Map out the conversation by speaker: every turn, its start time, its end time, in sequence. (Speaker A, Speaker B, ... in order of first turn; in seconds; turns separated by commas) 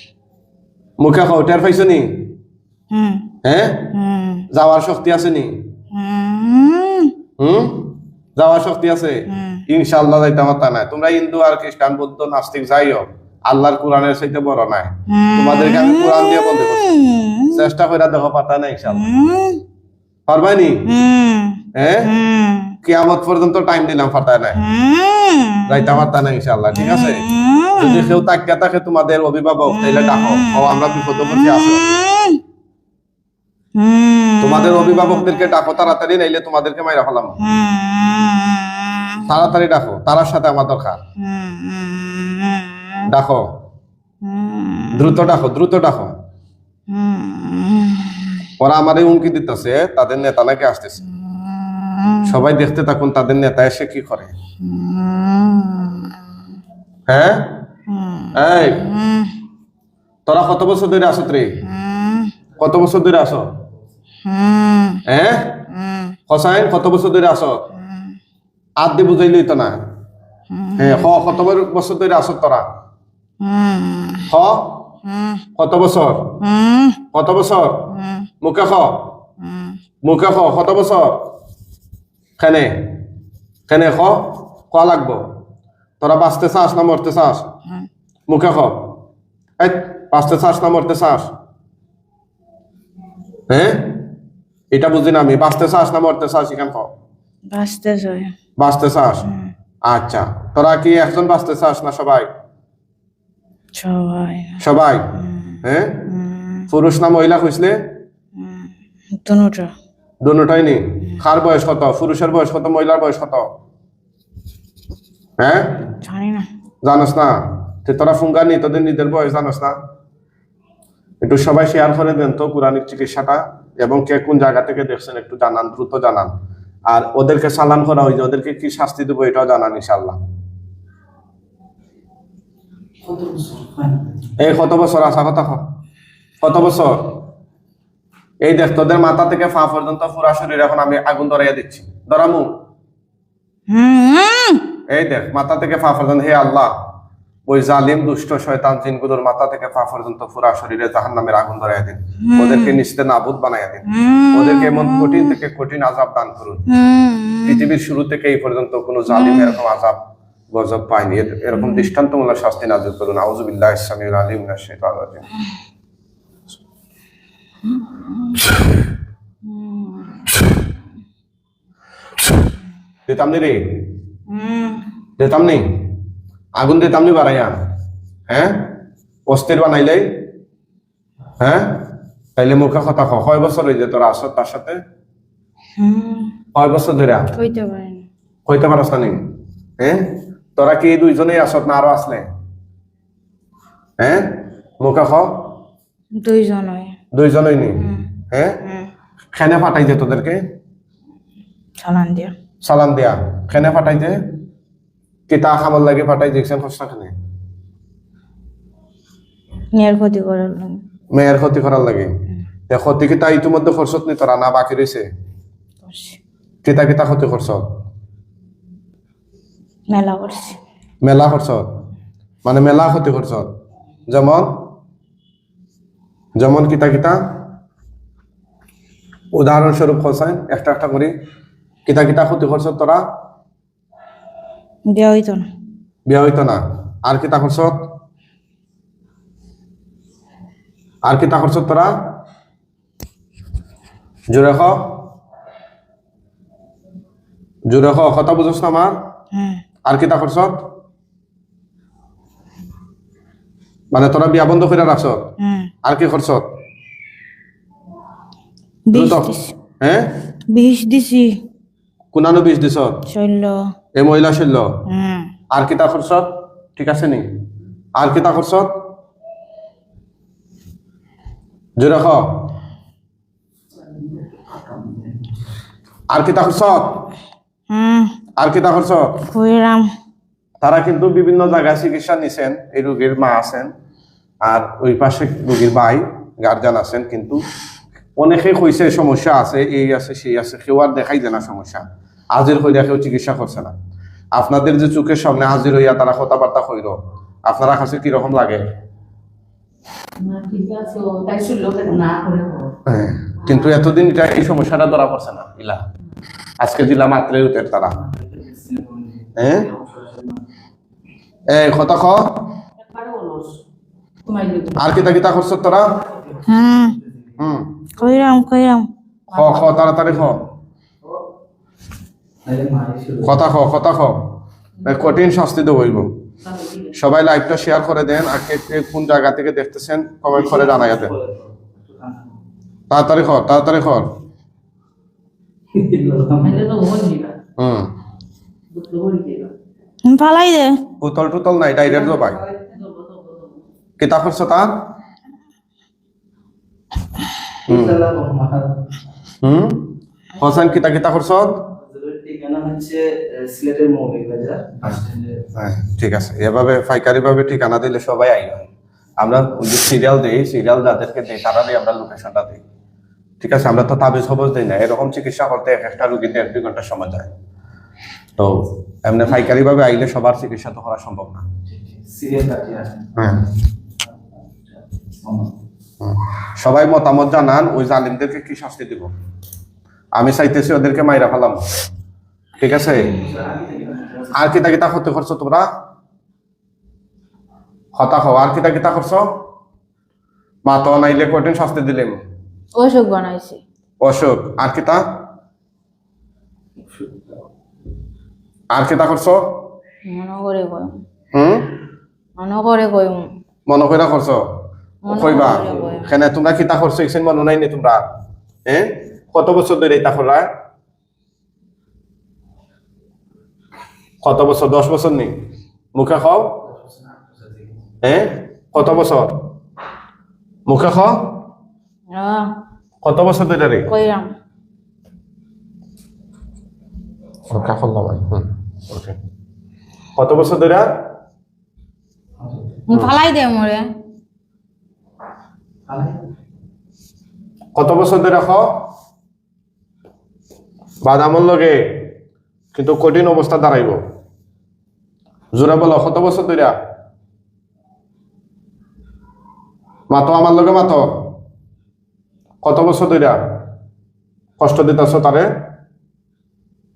Speaker A: 1.0-2.3, Speaker B: 2.9-3.2, Speaker A: 3.4-3.9, Speaker B: 3.9-4.5, Speaker A: 4.5-5.5, Speaker B: 5.9-7.1, Speaker A: 7.4-16.9, Speaker B: 9.3-9.6, Speaker B: 15.1-17.6, Speaker A: 17.5-19.1, Speaker B: 18.9-19.6, Speaker A: 20.3-20.9, Speaker B: 20.9-22.8, Speaker A: 21.7-22.1, Speaker A: 22.8-24.6, Speaker B: 24.6-26.1, Speaker A: 25.7-32.0, Speaker B: 26.7-28.2, Speaker B: 29.7-32.4, Speaker B: 33.7-35.3, Speaker A: 34.4-37.4, Speaker B: 37.4-39.4, Speaker A: 39.2-41.0, Speaker B: 41.2-43.0, Speaker A: 43.1-43.4, Speaker B: 44.2-45.3, Speaker A: 44.9-46.1, Speaker B: 46.9-48.4, Speaker A: 48.6-51.0, Speaker B: 51.2-52.4, Speaker A: 52.2-54.3, Speaker B: 54.6-56.2, Speaker A: 57.1-57.6, Speaker B: 57.9-59.3, Speaker A: 58.3-58.8, Speaker A: 60.3-61.6, Speaker B: 61.6-62.3, Speaker A: 62.6-63.5, Speaker B: 64.2-65.0, Speaker A: 65.1-65.6, Speaker B: 65.7-66.1, Speaker A: 66.3-67.6, Speaker A: 68.8-69.8, Speaker B: 70.5-71.1, Speaker A: 70.8-72.6, Speaker B: 73.4-74.3, Speaker A: 74.3-74.8, Speaker B: 75.0-75.4, Speaker A: 75.6-76.4, Speaker B: 76.4-77.0, Speaker A: 77.1-77.9, Speaker B: 77.9-78.3, Speaker A: 78.4-79.1, Speaker B: 79.4-79.8, Speaker A: 80.0-81.3, Speaker A: 82.4-83.0, Speaker A: 83.7-85.2, Speaker A: 86.0-87.5, Speaker A: 88.3-88.9, Speaker A: 89.6-91.3, Speaker A: 93.5-94.0, Speaker A: 94.7-96.9, Speaker B: 97.5-98.3, Speaker A: 98.6-99.3, Speaker B: 99.2-99.5, Speaker A: 99.9-102.3, Speaker B: 103.7-104.6, Speaker A: 104.6-106.0, Speaker B: 105.2-106.7, Speaker A: 106.7-107.8, Speaker B: 108.4-108.7, Speaker B: 109.2-109.7, Speaker A: 110.2-113.5, Speaker A: 115.4-115.8, Speaker B: 116.0-116.5, Speaker A: 116.8-119.8, Speaker A: 121.2-126.3, Speaker A: 126.9-130.2, Speaker C: 133.0-134.3, Speaker A: 134.4-135.6, Speaker A: 136.4-137.2, Speaker A: 138.4-142.5, Speaker B: 143.7-144.6, Speaker A: 144.9-146.7, Speaker A: 147.5-156.7, Speaker B: 152.2-152.8, Speaker B: 153.9-155.4, Speaker B: 156.7-157.7, Speaker A: 157.4-160.0, Speaker B: 159.1-159.6, Speaker A: 160.5-165.3, Speaker B: 161.5-161.9, Speaker B: 167.8-168.4, Speaker B: 169.4-170.3, Speaker A: 173.1-173.8, Speaker B: 174.3-174.8, Speaker A: 175.2-175.9, Speaker A: 176.6-177.6, Speaker A: 178.3-178.7, Speaker A: 179.3-180.1, Speaker A: 181.4-184.8, Speaker B: 185.8-186.3, Speaker A: 186.5-187.3, Speaker B: 187.3-188.0, Speaker A: 188.4-192.3, Speaker A: 194.0-195.5, Speaker B: 196.2-196.9, Speaker A: 197.1-198.6, Speaker B: 197.8-198.1, Speaker B: 198.6-198.9, Speaker A: 199.3-200.4, Speaker B: 201.8-202.3, Speaker A: 202.6-204.2, Speaker A: 205.3-207.1, Speaker B: 209.8-210.8, Speaker A: 211.1-212.1, Speaker A: 212.7-215.0, Speaker B: 215.8-216.2, Speaker A: 216.6-217.7, Speaker B: 219.9-220.6, Speaker A: 221.0-221.7, Speaker A: 222.4-223.5, Speaker A: 224.1-224.5, Speaker A: 226.4-227.2, Speaker A: 229.3-231.1, Speaker A: 231.8-233.0, Speaker B: 234.9-235.5, Speaker A: 236.1-237.9, Speaker A: 241.0-241.9, Speaker A: 244.3-245.0, Speaker A: 247.7-248.9, Speaker B: 249.3-249.6, Speaker A: 249.8-250.6, Speaker A: 253.9-255.3, Speaker B: 255.4-255.7, Speaker A: 255.8-256.5, Speaker B: 258.9-259.5, Speaker A: 258.9-260.1, Speaker B: 260.5-261.4, Speaker A: 262.1-263.0, Speaker B: 263.1-263.6, Speaker A: 263.9-264.7, Speaker B: 264.9-265.3, Speaker A: 265.5-267.2, Speaker A: 268.0-268.7, Speaker A: 271.8-272.4, Speaker C: 273.7-275.5, Speaker A: 276.1-277.0, Speaker B: 277.7-278.1, Speaker A: 278.4-279.1, Speaker B: 279.3-279.9, Speaker A: 280.6-283.7, Speaker A: 284.5-287.4, Speaker A: 288.2-291.8, Speaker A: 292.3-293.7, Speaker A: 294.3-298.6, Speaker D: 300.2-302.7, Speaker A: 302.9-305.8, Speaker D: 303.4-303.7, Speaker A: 306.6-308.0, Speaker C: 307.9-310.4, Speaker A: 309.4-309.7, Speaker A: 311.5-312.4, Speaker D: 312.8-313.6, Speaker D: 314.2-314.9, Speaker A: 314.8-315.9, Speaker C: 315.9-317.4, Speaker B: 316.5-317.0, Speaker A: 317.4-317.7, Speaker B: 318.0-318.9, Speaker A: 319.3-320.4, Speaker C: 322.4-323.4, Speaker A: 323.2-324.3, Speaker A: 324.8-326.1, Speaker D: 326.4-326.9, Speaker A: 326.9-331.1, Speaker C: 330.3-332.4, Speaker A: 332.9-334.1, Speaker C: 335.7-336.7, Speaker D: 336.4-337.3, Speaker A: 337.6-337.9, Speaker D: 338.7-339.5, Speaker B: 340.0-340.8, Speaker A: 341.0-342.4, Speaker D: 341.9-343.6, Speaker A: 344.0-344.8, Speaker C: 347.7-348.8, Speaker A: 347.7-348.0, Speaker A: 349.4-351.6, Speaker C: 351.8-355.4, Speaker A: 355.5-358.7, Speaker A: 359.2-362.6, Speaker A: 363.4-367.3, Speaker A: 368.4-371.4, Speaker C: 371.7-375.5, Speaker A: 373.1-373.4, Speaker A: 376.0-379.1, Speaker A: 380.1-381.6, Speaker A: 382.6-383.2, Speaker C: 383.1-384.6, Speaker A: 384.3-385.7, Speaker A: 387.9-389.3, Speaker A: 390.6-392.2, Speaker B: 392.8-393.6, Speaker A: 394.0-395.0, Speaker C: 396.8-397.4, Speaker A: 398.7-399.4, Speaker B: 400.1-400.9, Speaker A: 401.3-401.7, Speaker B: 402.4-403.3, Speaker A: 403.7-404.4, Speaker B: 405.0-406.1, Speaker A: 405.1-408.0, Speaker C: 405.1-406.0, Speaker A: 408.7-410.5, Speaker A: 414.2-415.3, Speaker A: 415.9-416.6, Speaker C: 416.7-417.8, Speaker A: 418.0-419.5, Speaker A: 420.7-421.3, Speaker B: 422.1-422.5, Speaker A: 423.0-423.9, Speaker B: 423.9-424.3, Speaker A: 427.5-429.1, Speaker A: 430.2-430.9, Speaker C: 432.4-432.8, Speaker B: 432.9-433.9, Speaker C: 435.9-436.2, Speaker A: 437.7-438.8, Speaker A: 441.0-442.1, Speaker A: 442.7-444.0, Speaker A: 445.5-446.7, Speaker A: 450.1-451.1, Speaker A: 452.6-453.4, Speaker A: 454.6-455.5